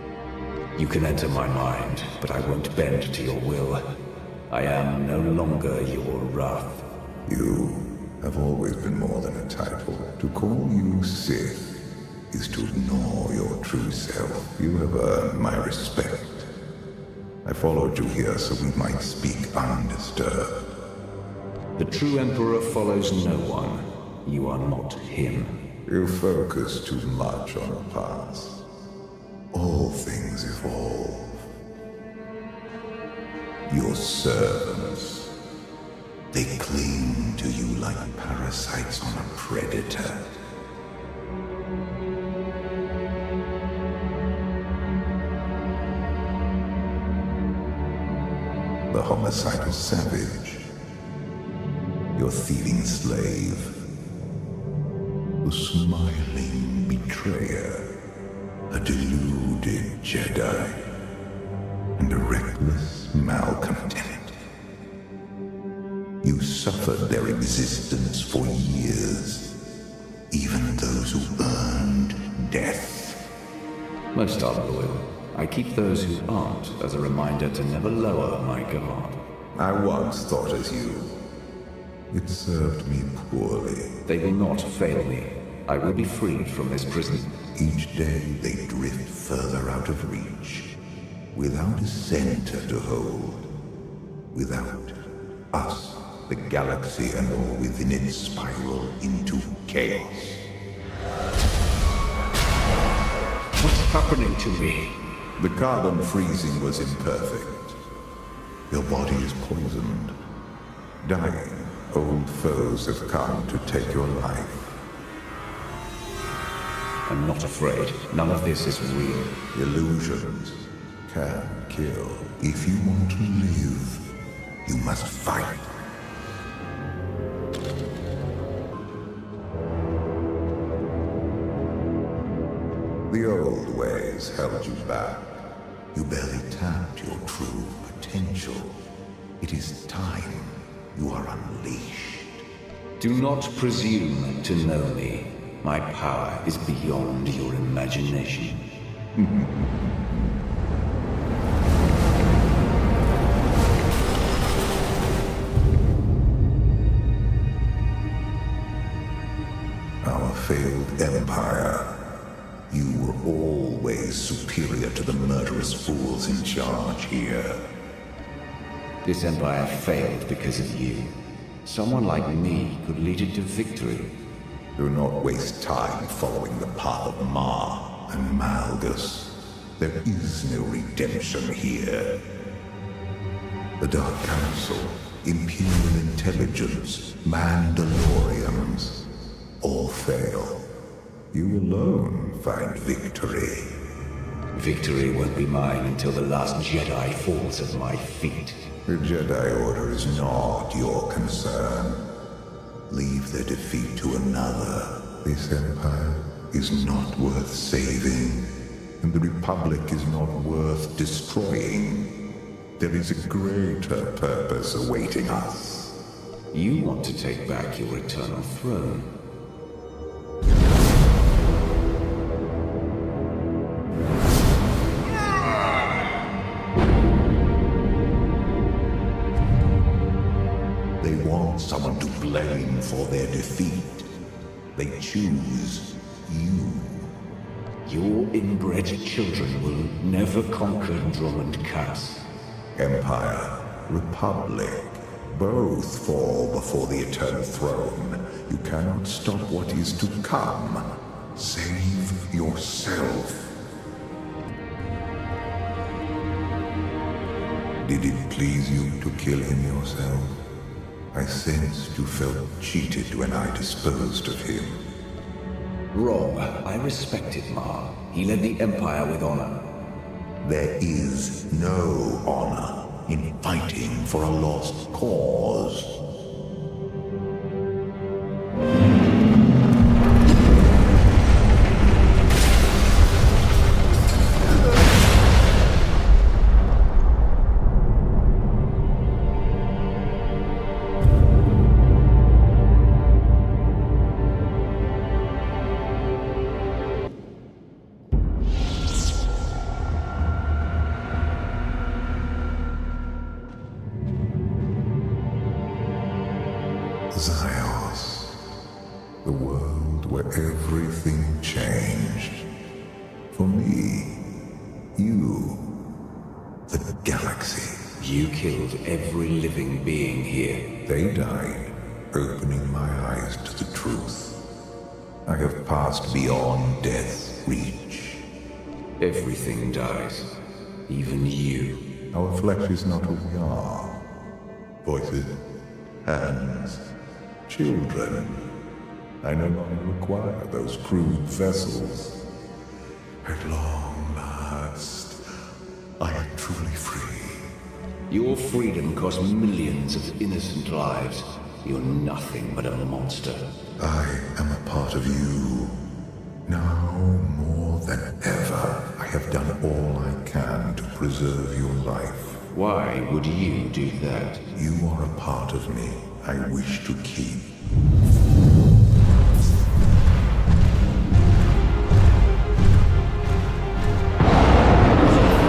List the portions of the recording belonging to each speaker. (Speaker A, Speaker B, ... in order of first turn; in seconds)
Speaker A: 0.8-3.8, 4.5-6.8, 21.8-25.5, 74.1-79.2, 84.1-87.4, 103.6-105.0, 117.1-119.3, 143.0-148.8, 169.0-174.1, 194.5-198.6, 216.5-219.1, 237.8-242.2, 265.9-269.6, 318.0-320.6, 329.0-330.3, 330.9-331.8, 348.1-353.4, 362.5-364.4
Speaker B: 7.3-11.7, 12.3-16.5, 17.4-20.6, 25.9-28.6, 29.5-31.5, 33.7-35.3, 36.3-40.4, 48.9-50.6, 52.1-53.8, 55.4-57.9, 58.7-60.8, 62.0-64.4, 66.2-69.5, 70.3-73.2, 79.5-81.2, 82.1-83.9, 87.5-90.7, 91.3-93.5, 94.3-100.5, 105.4-107.8, 108.7-110.2, 111.0-114.8, 119.5-124.0, 124.6-125.7, 133.1-135.3, 135.9-138.8, 139.4-142.4, 149.2-150.3, 160.0-161.9, 162.7-167.6, 174.8-182.1, 183.8-189.0, 189.6-190.6, 191.3-193.7, 198.9-202.1, 202.9-208.5, 209.0-212.1, 212.8-215.9, 231.0-234.1, 234.7-237.1, 242.8-253.5, 257.8-260.4, 261.1-264.8, 270.4-275.9, 307.1-308.3, 309.2-312.4, 313.3-314.1, 314.9-315.6, 316.7-317.8, 320.9-324.4, 325.2-328.2, 332.1-334.0, 334.8-335.3, 336.0-336.9, 337.5-338.4, 339.2-342.2, 343.2-345.4, 346.0-347.5, 353.8-355.8, 356.4-362.4, 364.5-367.4